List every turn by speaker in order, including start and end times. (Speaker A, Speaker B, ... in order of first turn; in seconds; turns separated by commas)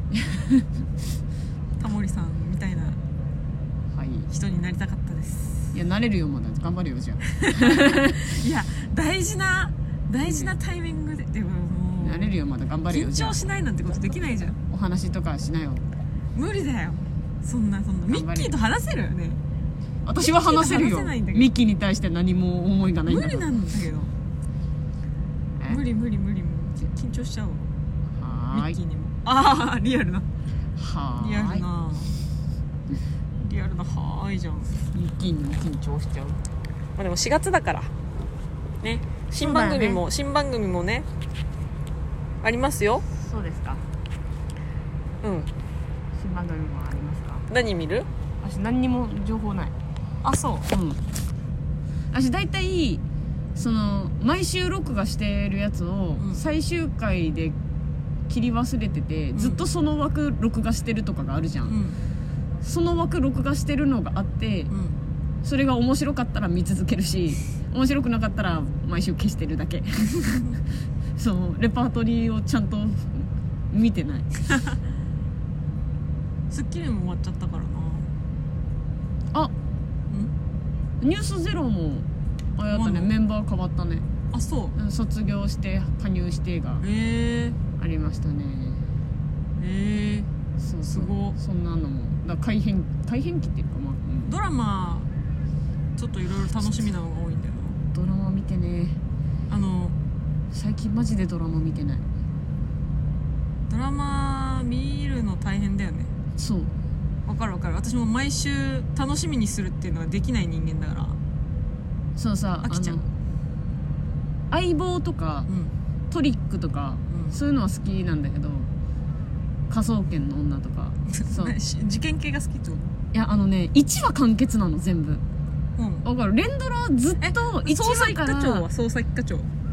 Speaker A: 0.1-0.7, Speaker B: 1.8-3.0, Speaker A: 3.9-4.3, Speaker B: 4.3-5.7, Speaker A: 5.7-8.3, Speaker B: 7.3-12.3, Speaker A: 10.2-10.5, Speaker A: 12.0-13.4, Speaker B: 12.9-14.6, Speaker A: 14.7-15.8, Speaker B: 16.3-19.4, Speaker A: 18.1-18.5, Speaker A: 20.0-23.5, Speaker B: 20.2-21.5, Speaker B: 23.1-24.1, Speaker B: 25.6-27.7, Speaker A: 28.1-28.8, Speaker B: 28.5-30.3, Speaker A: 30.8-31.6, Speaker B: 31.2-32.1, Speaker B: 33.4-34.7, Speaker A: 34.9-36.4, Speaker B: 37.0-37.9, Speaker B: 38.8-41.1, Speaker A: 39.4-40.0, Speaker B: 42.4-43.0, Speaker A: 43.2-43.8, Speaker B: 45.2-45.5, Speaker A: 46.1-47.5, Speaker B: 47.5-48.1, Speaker A: 48.4-49.7, Speaker B: 50.2-50.7, Speaker A: 50.7-51.0, Speaker A: 52.1-53.0, Speaker A: 53.5-57.5, Speaker A: 58.3-61.8, Speaker B: 59.3-59.6, Speaker B: 61.6-62.0, Speaker A: 62.6-64.7, Speaker B: 64.7-65.0, Speaker A: 65.4-70.5, Speaker A: 71.2-74.3, Speaker B: 76.5-78.1, Speaker A: 81.0-84.1, Speaker B: 82.7-83.1, Speaker B: 84.3-84.7, Speaker A: 84.7-86.8, Speaker B: 86.8-87.6, Speaker A: 87.8-88.8, Speaker B: 89.6-90.3, Speaker A: 90.6-94.3, Speaker B: 90.9-91.4, Speaker B: 94.2-95.1, Speaker B: 96.0-97.8, Speaker A: 97.9-99.0, Speaker B: 99.5-100.0, Speaker A: 100.5-102.0, Speaker B: 103.7-106.1, Speaker A: 106.4-106.8, Speaker B: 107.2-111.2, Speaker A: 112.2-113.1, Speaker B: 112.6-113.0, Speaker A: 114.5-115.5, Speaker B: 115.5-115.7, Speaker A: 116.1-118.7, Speaker B: 117.1-117.3, Speaker A: 119.7-121.5, Speaker B: 121.1-122.9, Speaker A: 123.1-125.2, Speaker B: 125.8-126.0, Speaker A: 126.0-128.7, Speaker B: 127.2-129.5